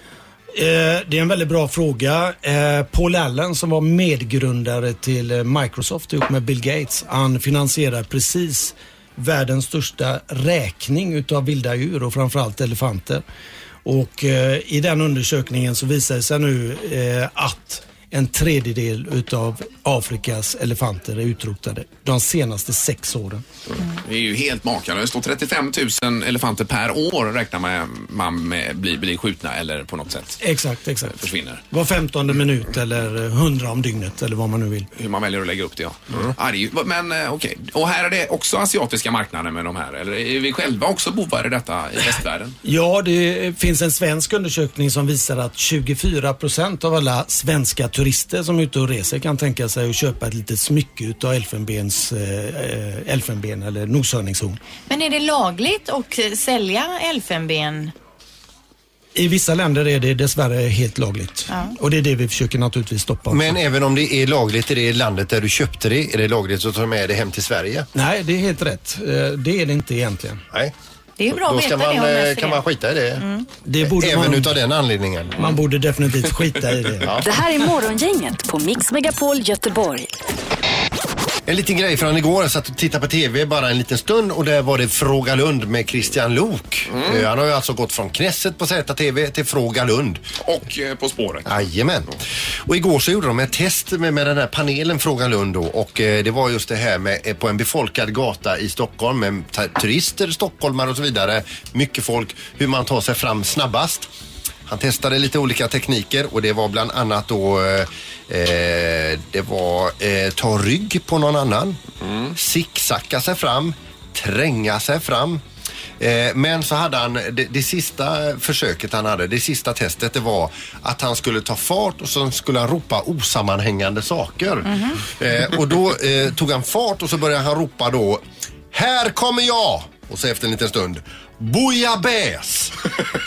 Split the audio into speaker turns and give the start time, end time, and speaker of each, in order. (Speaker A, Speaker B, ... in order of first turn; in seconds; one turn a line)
Speaker A: 0.5-13.2
Speaker A: 13.8-23.4
Speaker B: 24.0-30.4
Speaker A: 30.4-34.9
Speaker B: 31.1-31.6
Speaker B: 34.9-42.5
Speaker A: 42.6-54.6
Speaker C: 54.9-57.9
Speaker A: 59.1-63.6
Speaker C: 61.5-61.7
Speaker D: 63.3-67.9
Speaker A: 67.9-70.4
Speaker C: 71.2-72.6
Speaker D: 71.3-73.2
Speaker C: 73.2-73.5
Speaker A: 73.6-74.5
Speaker D: 73.8-75.5
Speaker A: 75.4-77.7
Speaker D: 77.0-77.3
Speaker E: 77.2-80.1
Speaker D: 81.5-90.2
Speaker B: 86.9-87.3
Speaker B: 90.4-91.5
Speaker D: 91.5-104.1
Speaker D: 104.7-111.8
Speaker B: 112.0-112.3
Speaker D: 112.3-115.4
Speaker D: 116.0-132.7
Speaker C: 124.7-125.0